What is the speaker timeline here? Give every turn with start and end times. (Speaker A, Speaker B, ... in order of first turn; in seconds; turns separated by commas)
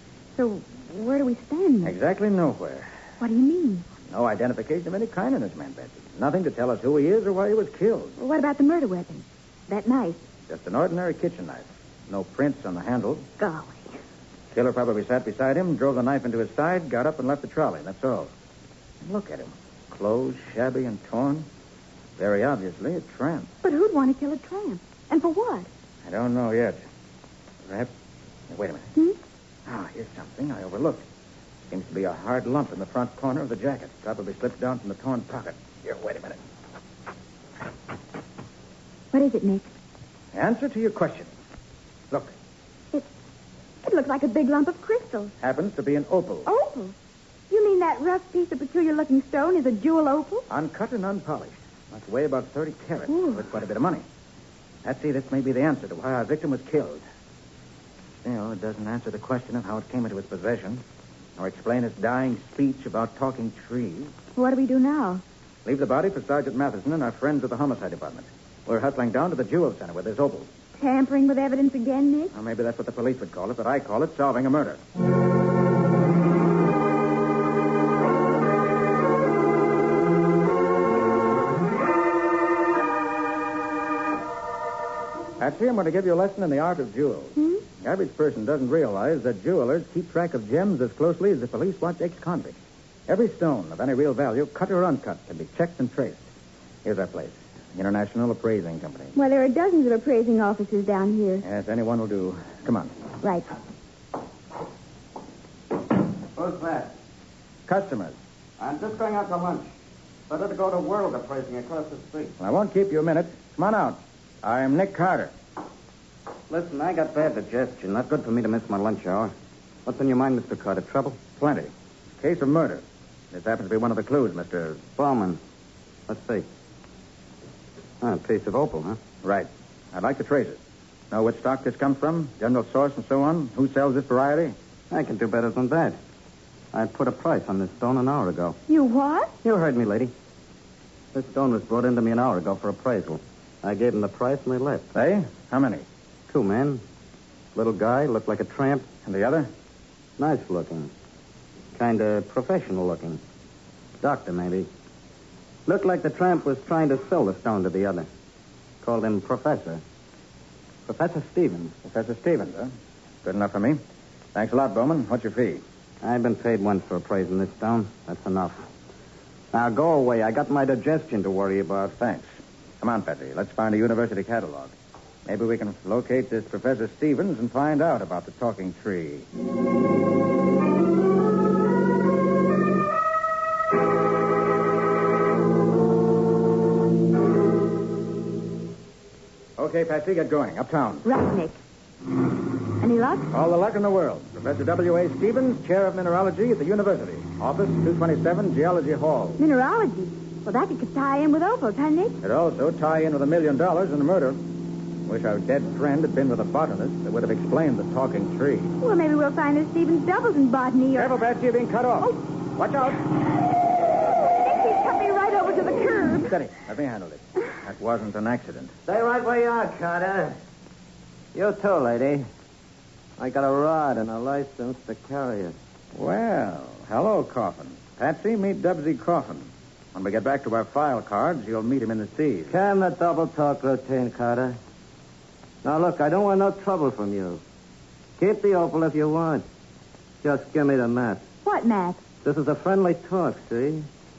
Speaker A: 0.3-1.9, Speaker B: 1.8-2.9, Speaker A: 3.2-3.9, Speaker B: 4.1-8.1, Speaker A: 8.2-10.2, Speaker B: 10.5-13.3, Speaker A: 13.4-13.9, Speaker B: 14.5-18.3, Speaker B: 19.0-21.5, Speaker B: 22.2-23.5, Speaker A: 23.6-25.7, Speaker B: 26.0-26.8, Speaker B: 28.5-28.9, Speaker B: 29.6-31.0, Speaker B: 31.7-36.4, Speaker A: 39.1-39.7, Speaker B: 40.3-41.3, Speaker A: 43.8-45.3, Speaker B: 45.4-46.5, Speaker A: 46.5-46.9, Speaker A: 47.5-50.5, Speaker B: 50.5-54.0, Speaker A: 53.1-53.4, Speaker B: 54.8-57.0, Speaker B: 58.2-60.8, Speaker B: 61.4-64.1, Speaker A: 64.3-65.2, Speaker B: 65.6-70.5, Speaker A: 70.8-72.3, Speaker B: 72.3-74.8, Speaker B: 85.4-92.5, Speaker A: 87.4-87.6, Speaker B: 93.1-96.2, Speaker B: 96.8-99.1, Speaker A: 99.1-101.4, Speaker B: 101.4-102.9, Speaker A: 103.2-103.5, Speaker C: 106.3-106.9, Speaker B: 107.7-108.2, Speaker C: 108.6-109.6, Speaker C: 110.3-112.3, Speaker B: 112.4-115.3, Speaker C: 116.5-119.3, Speaker C: 119.8-121.2, Speaker B: 121.4-124.8, Speaker C: 125.0-125.4, Speaker C: 126.1-126.4, Speaker C: 128.0-129.0, Speaker B: 129.2-130.6, Speaker B: 131.1-134.5, Speaker C: 134.9-135.9, Speaker C: 136.7-138.5, Speaker A: 138.7-139.3, Speaker C: 139.4-140.1, Speaker C: 141.1-144.8, Speaker B: 144.9-145.8, Speaker C: 146.3-146.8, Speaker C: 147.6-148.8, Speaker B: 149.0-149.5, Speaker C: 150.2-150.9, Speaker C: 151.8-153.2, Speaker C: 154.0-154.7, Speaker C: 155.7-158.1, Speaker C: 158.8-159.8, Speaker C: 160.9-161.7, Speaker B: 161.8-162.7, Speaker B: 163.2-163.8, Speaker B: 164.3-165.6, Speaker C: 166.0-168.5, Speaker C: 169.5-171.8, Speaker B: 171.9-172.2, Speaker B: 172.8-174.7, Speaker B: 175.2-179.3, Speaker B: 189.6-191.0, Speaker A: 191.0-191.6, Speaker A: 192.8-193.3, Speaker B: 193.3-199.4, Speaker A: 199.4-202.2, Speaker B: 202.2-204.4, Speaker B: 205.1-208.7, Speaker A: 208.8-211.1, Speaker B: 210.9-213.0, Speaker A: 214.1-216.3, Speaker B: 216.2-218.7, Speaker C: 218.9-220.4, Speaker C: 221.3-222.3, Speaker C: 223.2-225.5, Speaker B: 225.9-232.5, Speaker C: 232.5-234.6, Speaker C: 235.6-237.4, Speaker C: 238.2-239.4, Speaker C: 240.2-241.2, Speaker A: 241.4-242.0, Speaker C: 242.2-243.9